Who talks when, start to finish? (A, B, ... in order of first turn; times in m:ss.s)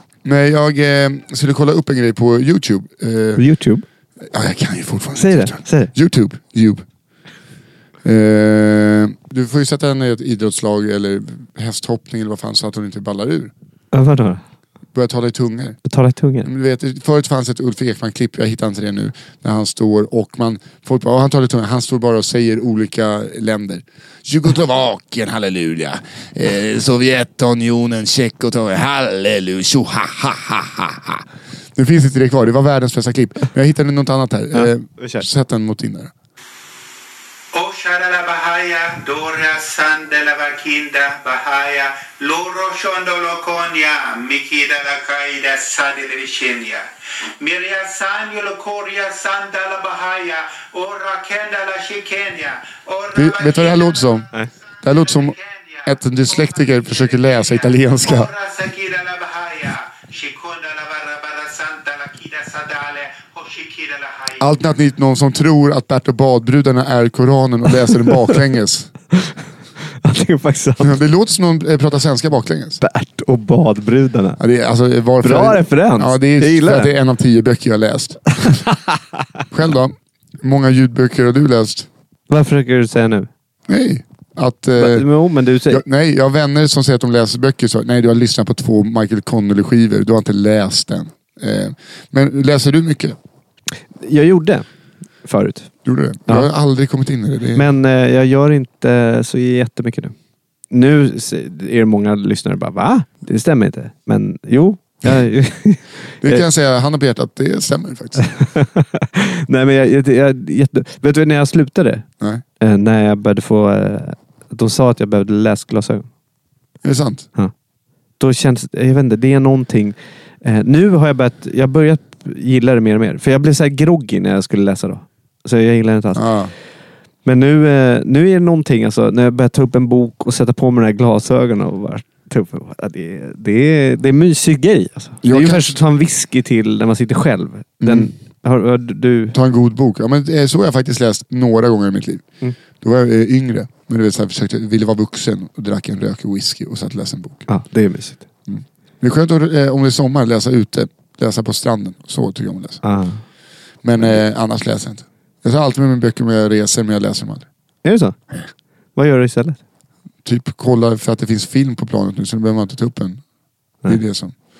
0:00.2-0:03.4 A
0:03.4-0:03.8 B
0:04.3-0:06.8 A
0:05.2-0:05.9 B
0:08.0-0:13.5 A
0:13.9-0:14.4 B
0:14.9-0:15.8 A
0:15.8-0:16.5 B
0:16.4-0:31.2 A
0:31.8-0:36.1 A
0:34.5-0:35.2 B
0:37.5-0:46.9 C
0:47.4-0:54.3 C
0:53.1-0:54.3 A
0:54.8-0:58.3 A
0:54.9-1:04.6 C
1:04.4-1:08.9 A
1:10.0-1:11.0 B
1:10.8-1:12.8 A
1:12.8-1:14.4 B
1:14.4-1:18.7 A
1:15.2-1:16.9 B
1:19.5-1:21.9 A
1:22.3-1:23.3 B
1:23.7-1:25.1 A
1:24.8-1:25.8 B
1:25.7-1:33.2 A
1:34.0-1:34.6 B
1:35.2-1:35.7 B
1:35.8-1:37.7 A
1:37.5-1:40.1 B
1:40.7-1:46.4 B
1:46.2-1:48.2 A
1:48.2-1:52.0 B
1:52.6-1:56.1 B
1:56.8-1:57.3 A
1:58.2-2:06.3 B
2:06.1-2:06.5 A
2:07.2-2:19.3 B
2:15.2-2:15.7 A
2:17.8-2:18.1 A
2:19.3-2:22.3 A
2:22.8-2:27.5 A
2:27.5-2:28.2 B
2:28.5-2:32.8 A
2:32.8-2:33.2 B
2:33.8-2:37.5 A
2:37.8-2:38.2 B
2:39.0-2:39.6 B
2:40.2-2:43.2 A
2:43.8-2:44.3 A